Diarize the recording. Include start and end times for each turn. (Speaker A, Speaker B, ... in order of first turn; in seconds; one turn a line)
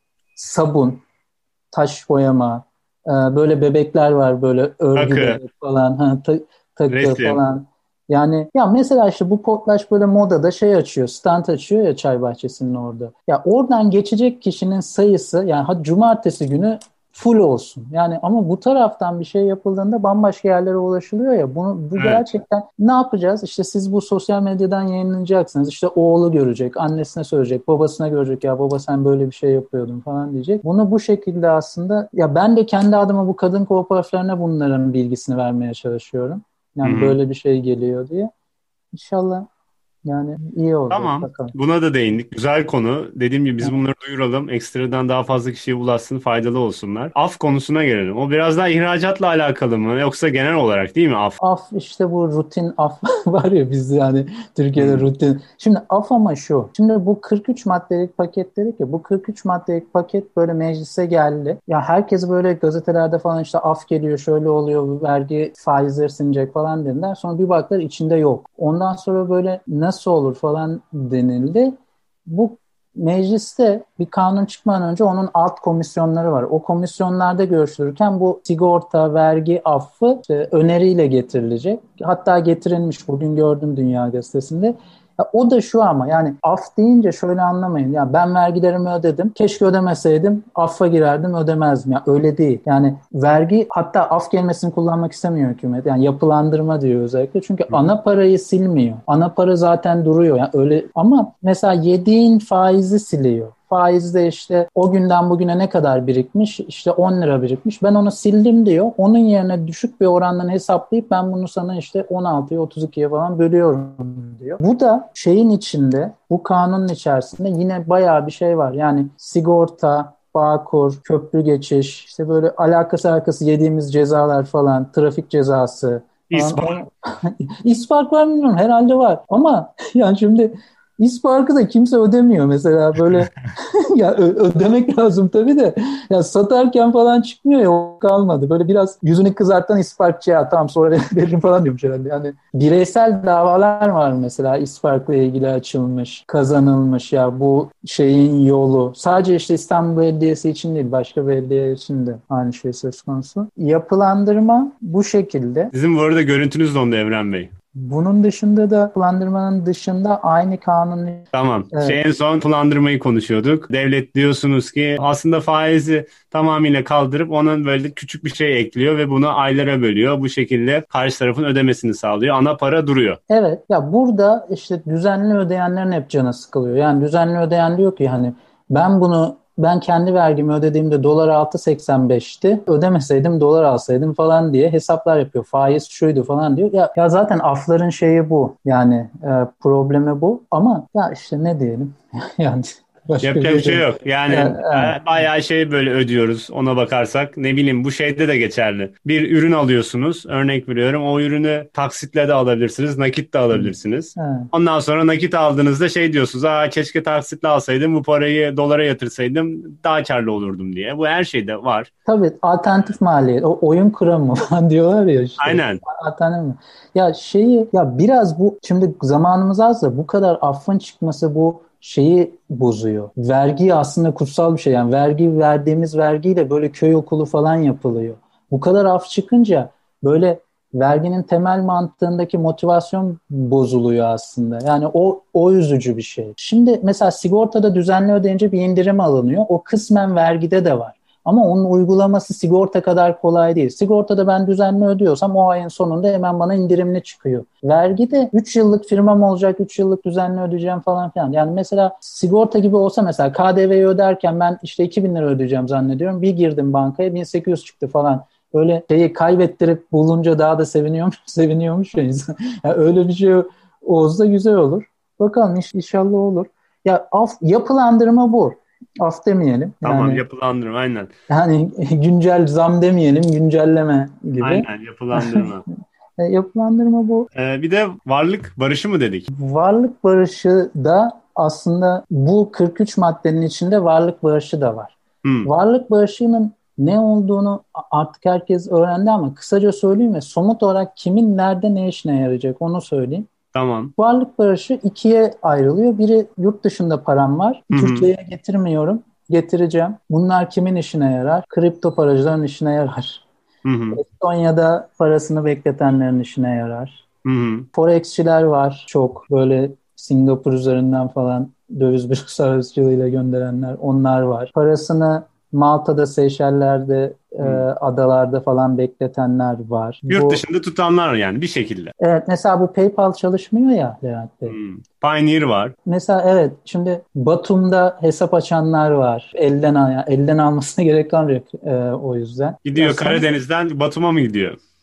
Speaker A: 0.3-1.0
Speaker A: 1.7-38.3
Speaker B: 5.0-5.4
Speaker B: 6.9-7.4
Speaker B: 22.0-22.2
Speaker B: 36.8-37.2
Speaker A: 38.9-39.5
Speaker A: 40.0-41.5
Speaker B: 40.9-51.4
Speaker A: 51.4-71.7
Speaker B: 54.8-55.0
Speaker A: 72.2-155.7
Speaker B: 126.3-126.8
Speaker B: 155.7-157.5
Speaker A: 157.8-162.0
Speaker B: 161.3-173.2
Speaker A: 173.3-194.9
Speaker B: 193.2-211.9
Speaker A: 203.5-204.5
Speaker A: 212.1-270.2
Speaker B: 215.4-215.8
Speaker B: 269.8-271.1
Speaker A: 271.3-275.5
Speaker B: 274.4-275.6
Speaker A: 276.2-277.3
Speaker B: 277.3-279.3
Speaker A: 279.3-293.3
Speaker B: 285.2-285.5
Speaker B: 293.5-293.9
Speaker A: 294.0-303.2
Speaker B: 297.7-298.1
Speaker B: 303.6-304.0
Speaker A: 303.9-307.0
Speaker B: 307.2-307.7
Speaker A: 307.7-320.4
Speaker B: 317.4-317.6
Speaker B: 320.1-321.9
Speaker A: 322.0-324.6
Speaker B: 324.5-325.7
Speaker A: 325.9-333.2
Speaker B: 332.6-334.6